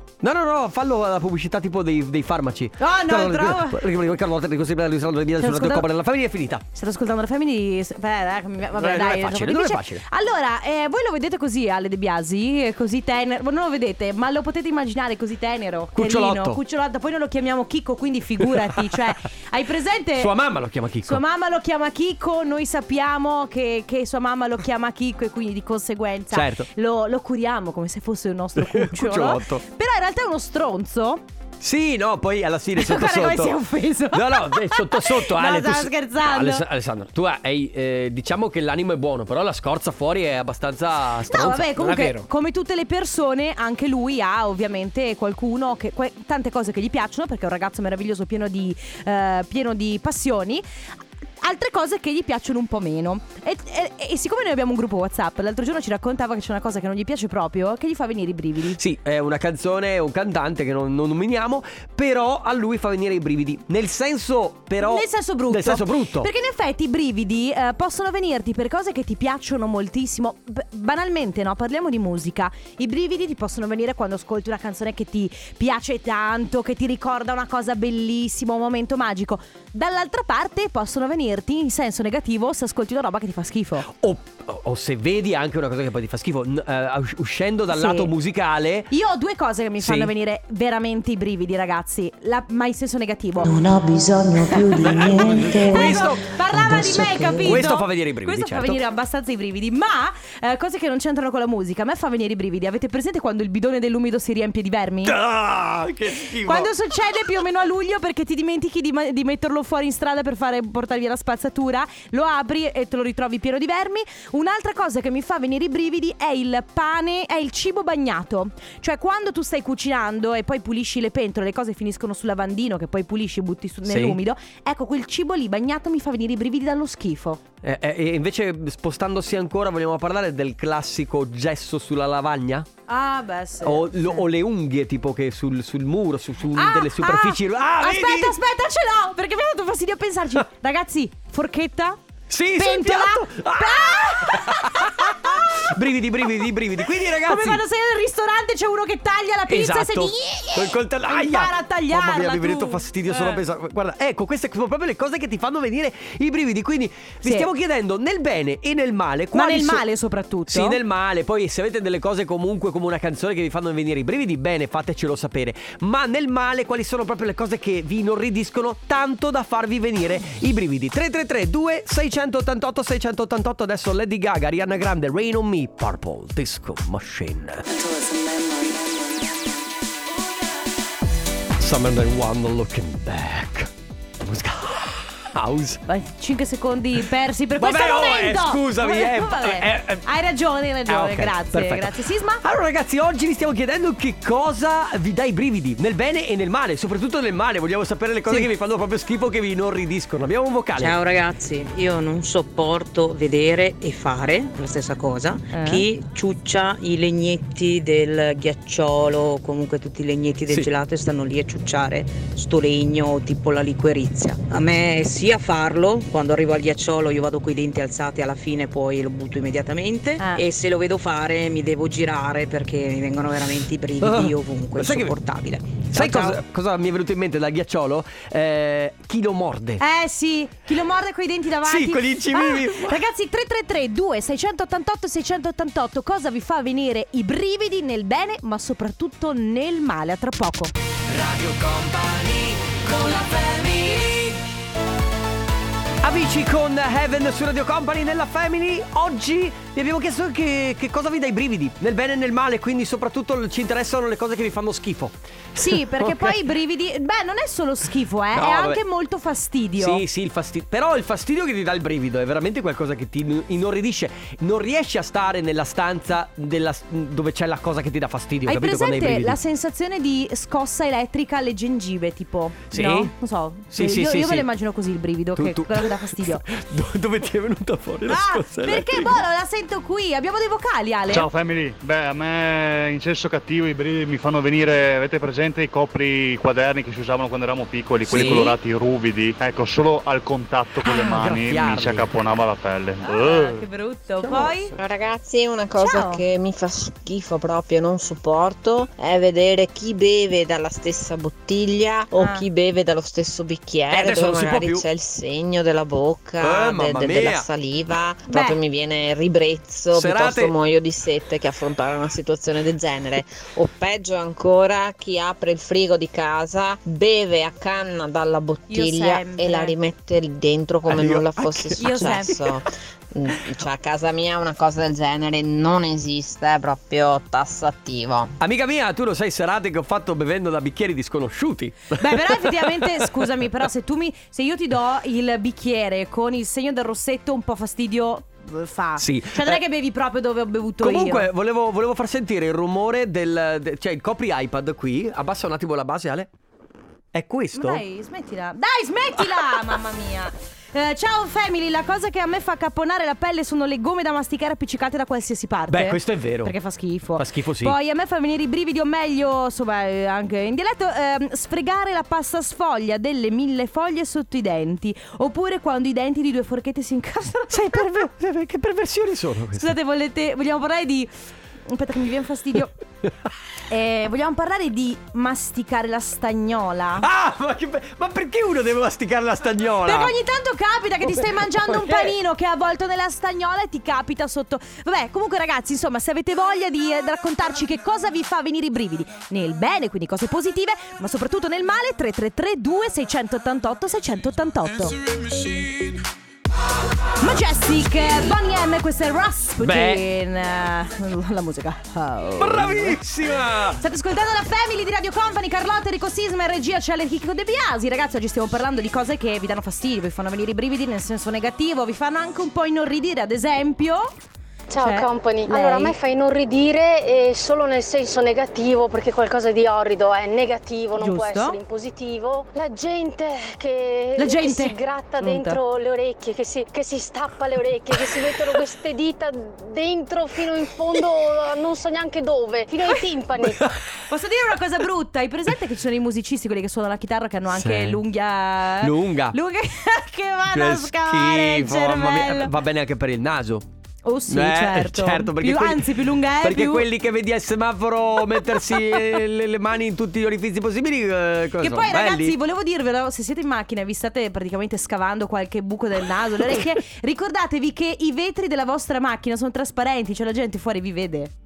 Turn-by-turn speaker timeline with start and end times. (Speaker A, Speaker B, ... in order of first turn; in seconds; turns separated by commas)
Speaker A: 0.2-6.6, Speaker B: 2.8-3.8, Speaker B: 5.4-5.9, Speaker B: 6.7-20.3, Speaker A: 8.8-10.0, Speaker A: 16.0-16.6, Speaker A: 18.5-19.0, Speaker A: 20.2-21.2, Speaker B: 21.1-31.2, Speaker A: 26.3-26.7, Speaker A: 28.6-29.6, Speaker A: 31.6-33.5, Speaker B: 32.8-36.6, Speaker A: 34.1-42.3, Speaker B: 41.3-50.6, Speaker B: 51.4-58.8, Speaker A: 58.8-66.3, Speaker B: 64.8-83.9, Speaker A: 83.9-88.9, Speaker B: 87.7-88.1, Speaker B: 88.9-93.5, Speaker A: 89.8-90.1, Speaker C: 93.5-97.7, Speaker B: 94.6-105.2, Speaker A: 94.8-96.3, Speaker A: 97.4-98.8, Speaker A: 105.0-106.7, Speaker B: 106.4-127.4, Speaker A: 123.9-124.2, Speaker A: 127.6-132.7, Speaker B: 132.9-134.3, Speaker A: 133.6-138.3, Speaker B: 136.5-142.0, Speaker A: 142.3-147.6, Speaker B: 142.6-145.7, Speaker B: 147.1-153.4, Speaker A: 149.5-159.8, Speaker B: 157.2-157.5, Speaker B: 159.3-160.8, Speaker A: 160.5-177.7, Speaker A: 181.6-185.8, Speaker B: 185.9-192.4, Speaker A: 187.6-190.0, Speaker A: 190.9-191.9, Speaker A: 192.4-201.0, Speaker D: 200.8-226.4, Speaker B: 205.5-205.8, Speaker A: 224.0-225.1, Speaker A: 225.9-229.8, Speaker B: 229.8-240.7, Speaker A: 231.7-233.0, Speaker A: 241.1-244.4, Speaker A: 246.0-256.4, Speaker B: 255.6-260.0, Speaker A: 258.3-258.8, Speaker A: 259.8-269.4, Speaker B: 268.5-276.4, Speaker A: 272.7-273.1, Speaker A: 273.7-274.5, Speaker A: 275.4-279.2, Speaker B: 278.1-281.3, Speaker E: 281.1-293.7, Speaker A: 288.1-288.6, Speaker A: 290.8-292.1, Speaker B: 293.1-294.7, Speaker F: 294.8-328.4, Speaker B: 295.8-296.2, Speaker B: 302.2-302.4, Speaker A: 303.9-304.9, Speaker A: 306.4-307.5, Speaker B: 308.3-308.6, Speaker A: 309.9-310.5, Speaker B: 318.7-319.7, Speaker A: 320.9-322.5, Speaker B: 321.8-322.4, Speaker A: 328.4-333.3, Speaker B: 332.0-341.3, Speaker A: 339.0-339.6, Speaker A: 340.8-346.3, Speaker A: 347.1-347.8, Speaker B: 347.5-367.9, Speaker A: 349.2-349.6, Speaker A: 355.7-356.5, Speaker A: 357.2-357.8, Speaker A: 367.5-369.7, Speaker B: 369.6-371.1, Speaker B: 371.7-372.8, Speaker B: 373.7-377.1, Speaker A: 377.0-380.1, Speaker B: 379.8-395.0, Speaker A: 381.1-382.2, Speaker B: 397.2-403.0, Speaker A: 399.6-400.0, Speaker A: 402.4-403.8, Speaker B: 403.8-414.1, Speaker G: 414.7-433.6, Speaker B: 414.8-416.0, Speaker B: 421.0-421.6, Speaker B: 424.2-425.6, Speaker B: 434.1-442.5, Speaker A: 437.5-438.0, Speaker A: 438.8-439.4, Speaker A: 440.5-443.7, Speaker B: 444.1-446.9, Speaker A: 444.3-445.8, Speaker A: 446.4-452.4, Speaker B: 448.4-448.8, Speaker B: 451.6-461.3